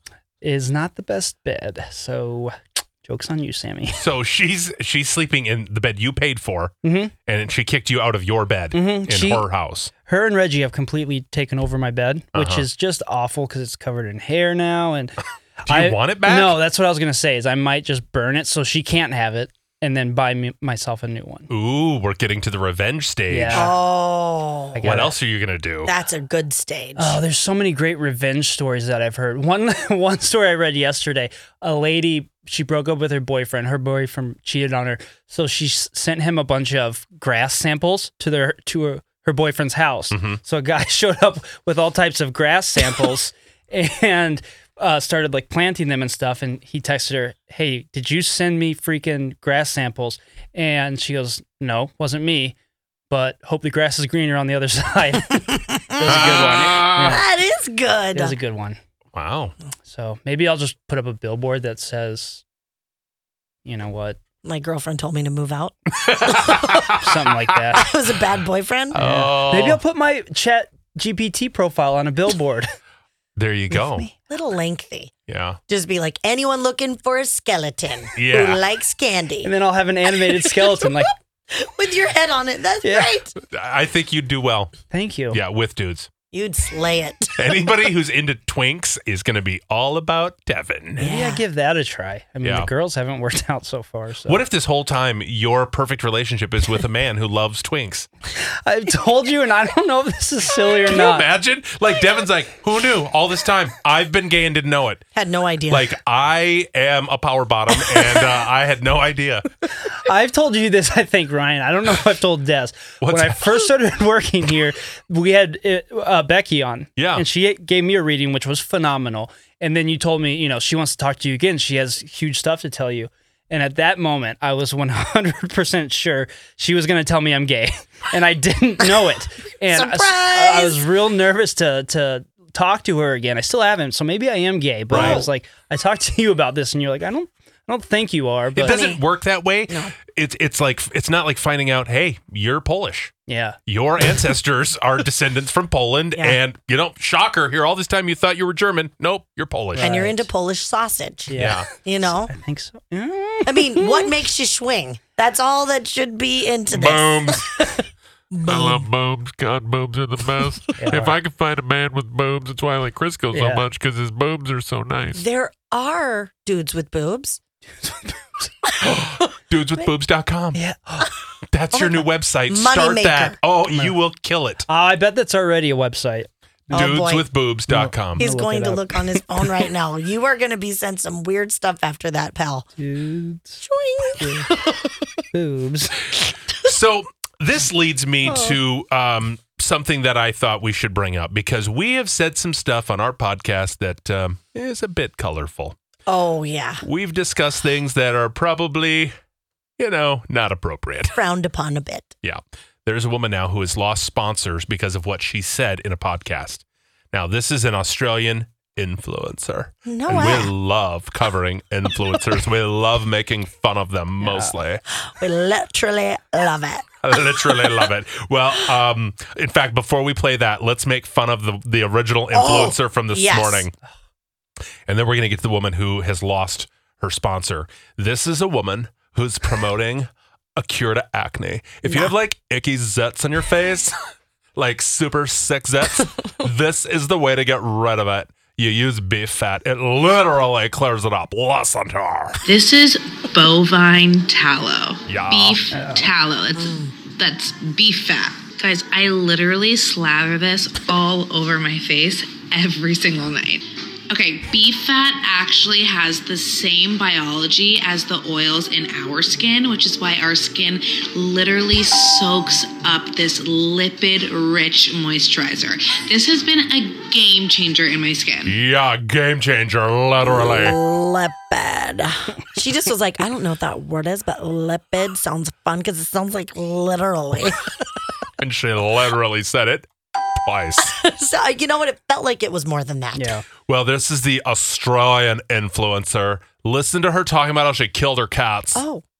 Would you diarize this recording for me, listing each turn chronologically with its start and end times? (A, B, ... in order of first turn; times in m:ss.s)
0:00.4-0:04.0 A
0:03.9-0:06.7 B
0:06.8-0:07.1 A
0:07.2-0:09.9 B
0:08.7-0:09.4 A
0:10.0-0:21.5 A
0:12.3-0:12.7 B
0:15.6-0:16.6 B
0:21.5-0:23.7 B
0:23.3-0:23.7 A
0:23.5-0:24.8 C
0:24.8-0:25.1 A
0:24.8-0:25.9 B
0:25.8-0:27.2 C
0:27.0-0:52.5 A
0:40.1-0:40.4 B
0:53.1-0:57.2 A
0:55.6-0:56.4 C
0:56.0-0:57.2 B
0:56.9-0:58.3 C
0:58.1-0:58.8 A
0:59.1-0:59.5 B
0:59.9-1:02.4 A
1:03.6-1:04.2 A
1:04.4-1:06.9 C
1:06.0-1:07.6 B
1:07.0-1:07.8 A
1:07.7-1:09.0 C
1:08.9-1:09.8 B
1:08.9-1:12.7 A
1:13.4-1:14.1 B
1:13.7-1:14.1 A
1:14.3-1:15.1 C
1:15.3-1:15.6 B
1:15.7-1:19.5 C
1:18.2-1:18.6 B
1:19.4-1:21.1 A
1:21.5-1:23.3 C
1:22.8-1:23.1 A
1:23.4-1:24.7 B
1:24.9-1:25.4 A
1:25.3-1:26.1 B
1:26.3-1:27.4 C
1:27.4-1:31.1 B
1:31.0-1:31.4 C
1:31.0-1:34.4 A
1:32.4-1:32.7 B
1:34.3-1:38.1 B
1:38.6-1:41.2 A
1:40.9-1:45.0 B
1:45.1-1:45.9 C
1:45.7-1:49.5 B
1:49.9-2:18.8 A
1:53.0-1:53.6 B
1:57.0-1:57.2 B
2:09.7-2:10.8 C
2:14.9-2:15.2 B
2:14.9-2:15.3 C
2:18.5-2:23.1 B
2:18.6-2:19.0 C
2:23.3-2:23.6 A
2:23.7-2:29.9 B
2:29.7-2:30.3 A
2:29.8-2:32.3 C
2:31.3-2:31.6 A
2:31.3-2:31.7 B
2:32.3-2:34.1 A
2:33.4-2:38.9 C
2:36.7-2:37.4 D
2:38.4-2:45.2 D
2:40.8-2:41.2 A
2:43.3-2:43.6 A
2:45.1-2:47.4 C
2:47.8-2:48.7 A
2:48.8-2:50.6 B
2:50.5-2:51.1 A
2:51.5-2:54.6 B
2:51.7-2:53.4 C
2:53.7-2:54.0 A
2:54.7-2:56.9 A
2:56.7-2:58.3 B
2:56.7-2:57.2 C
2:57.7-2:59.5 A
2:58.2-3:02.6 C
3:02.8-3:03.6 A
3:03.6-3:04.5 C
3:04.2-3:04.5 A
3:05.3-3:06.0 A
3:06.6-3:15.8 B
3:08.2-3:08.6 C
3:16.1-3:16.8 C
3:16.8-3:19.1 B
3:19.8-3:21.2 B
3:21.1-3:22.1 C
3:22.2-3:34.8 B
3:29.8-3:30.5 C
3:34.2-3:34.5 A
3:35.0-3:36.9 C
3:37.0-3:43.7 B
3:42.3-3:43.6 C
3:44.9-3:54.0 B
3:51.8-3:52.1 C
3:54.6-4:02.4 B
4:02.4-4:28.6 E
4:05.1-4:05.6 B
4:05.7-4:06.1 A
4:06.6-4:06.9 C
4:28.4-4:30.8 B
4:30.2-4:37.7 C
4:38.4-4:39.9 B
4:40.4-4:40.9 B
4:40.8-4:43.4 C
4:43.2-4:43.4 A
4:43.6-4:48.8 B
4:48.7-4:49.0 C